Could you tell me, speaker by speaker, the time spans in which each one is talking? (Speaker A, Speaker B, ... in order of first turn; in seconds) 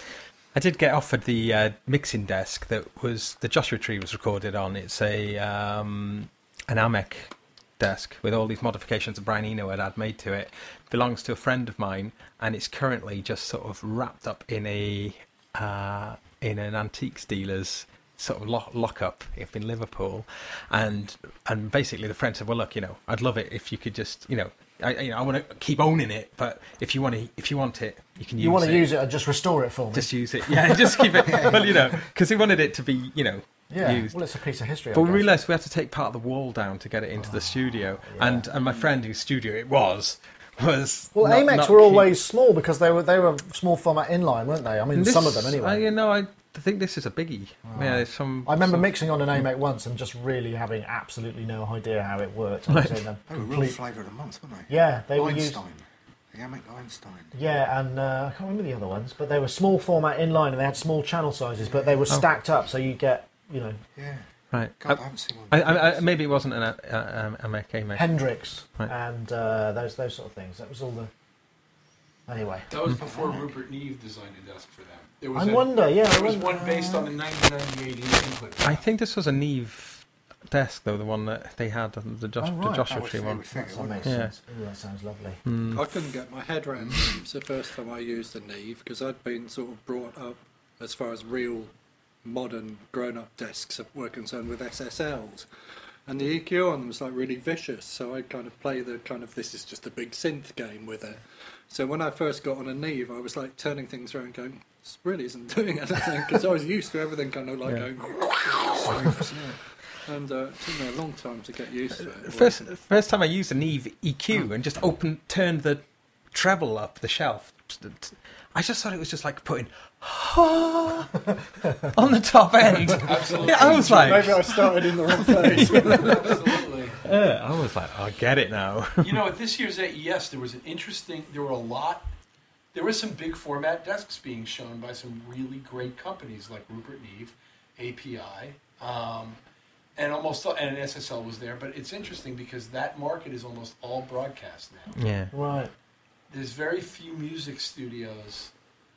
Speaker A: 0.5-28.9, 29.9-34.2, 34.9-42.1, 44.9-48.9, 52.7-53.0, 64.5-68.1, 78.6-83.4, 84.0-84.3, 85.5-85.8, 107.7-109.0, 112.2-121.2, 121.8-124.5, 125.3-126.3, 127.0-129.2, 145.0-145.3
Speaker B: 28.4-31.7, 33.7-35.3, 37.2-38.5, 41.1-45.9, 47.7-53.8, 54.7-55.6, 57.3-63.8, 68.0-71.1, 72.3-73.1, 75.3-77.1, 82.4-83.0, 83.5-85.4, 145.3-145.7
Speaker C: 31.2-31.8, 53.3-57.3, 61.6-62.0, 64.0-64.3, 64.8-66.0, 82.9-84.2, 86.8-87.2, 108.8-109.6
Speaker D: 72.7-78.8, 123.0-124.4, 125.6-127.0, 129.0-132.1, 132.7-139.4, 140.0-145.0, 146.3-148.5
Speaker E: 85.8-91.7, 92.2-95.5, 96.1-108.9, 110.1-112.6, 123.5-126.4